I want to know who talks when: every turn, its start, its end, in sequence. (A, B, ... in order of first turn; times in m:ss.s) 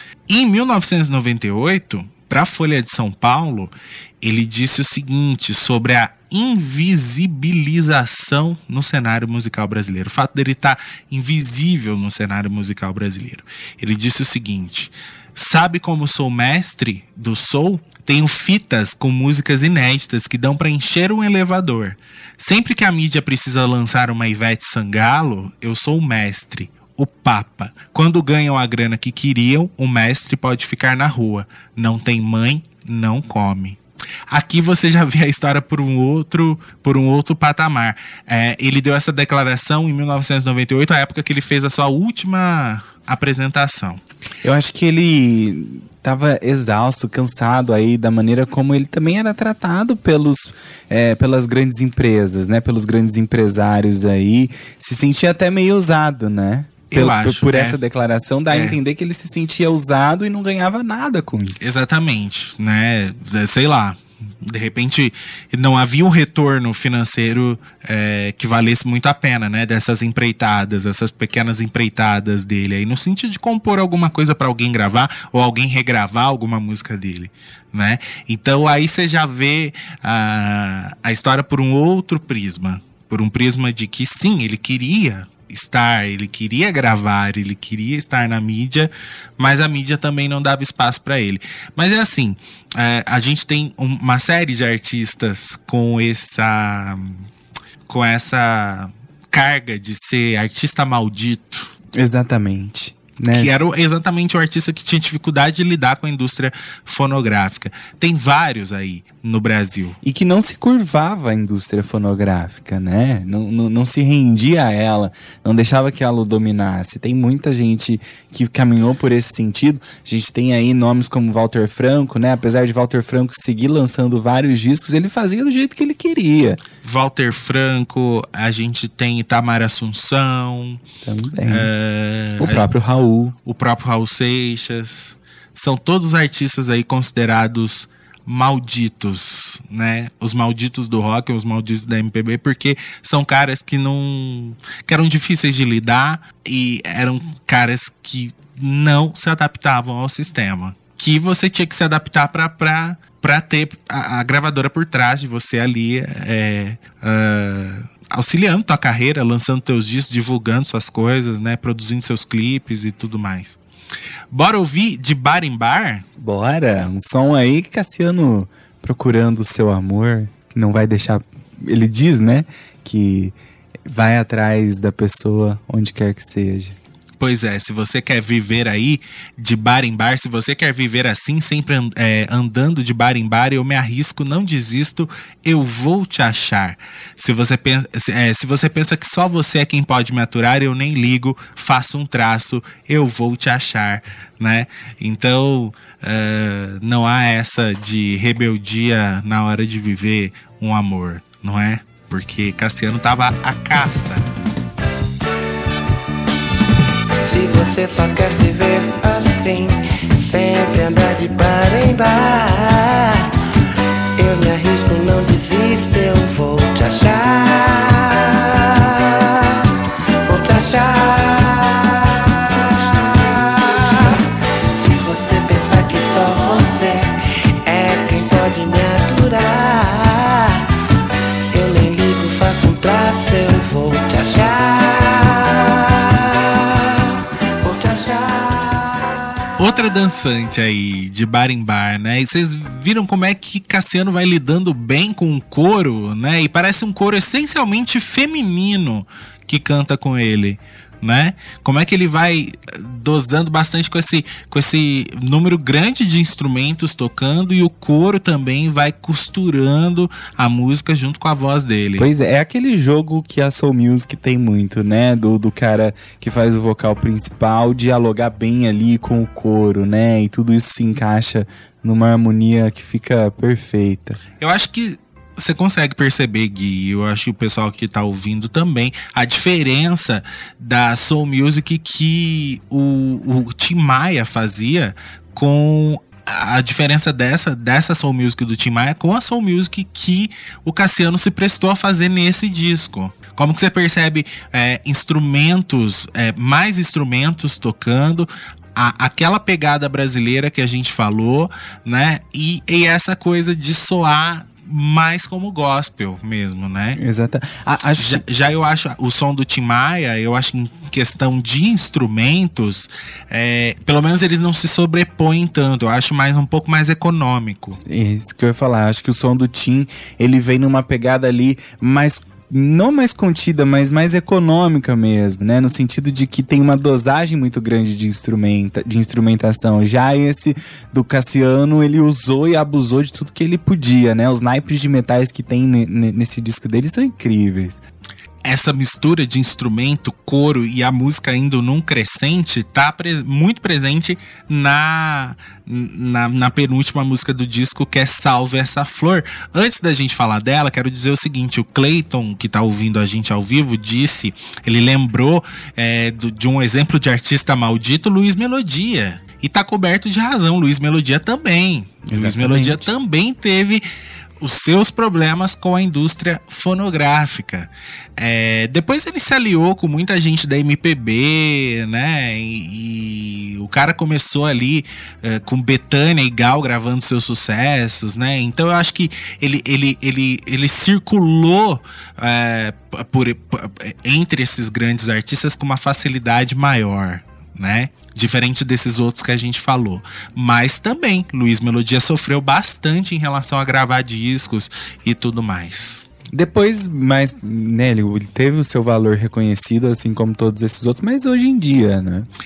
0:00.3-0:33.8 A
0:34.3-0:44.0 A
0:44.4-1:01.7 B
0:56.9-0:57.8 A
0:58.5-0:58.8 A
1:01.6-1:37.3 A
1:37.9-1:41.7 A
1:42.0-1:43.5 B
1:43.3-1:50.0 A
1:50.0-2:06.6 B
2:06.8-2:10.8 A
2:11.0-2:11.7 B
2:11.5-2:12.7 A
2:12.4-2:13.4 B
2:13.4-2:43.6 A
2:44.3-2:46.0 A
2:46.2-2:56.8 B
2:57.2-3:24.3 A
3:27.2-3:33.3 C
3:34.2-3:39.7 C
3:40.2-3:50.6 C
3:51.5-3:59.1 C
3:59.6-4:22.1 A
4:22.0-4:34.2 B
4:34.4-5:07.0 A
5:07.0-5:08.2 B
5:08.0-5:17.8 A
5:17.8-5:37.8 B
5:38.4-6:03.9 A
6:02.1-6:02.9 B
6:04.4-6:36.0 A
6:36.3-6:42.3 B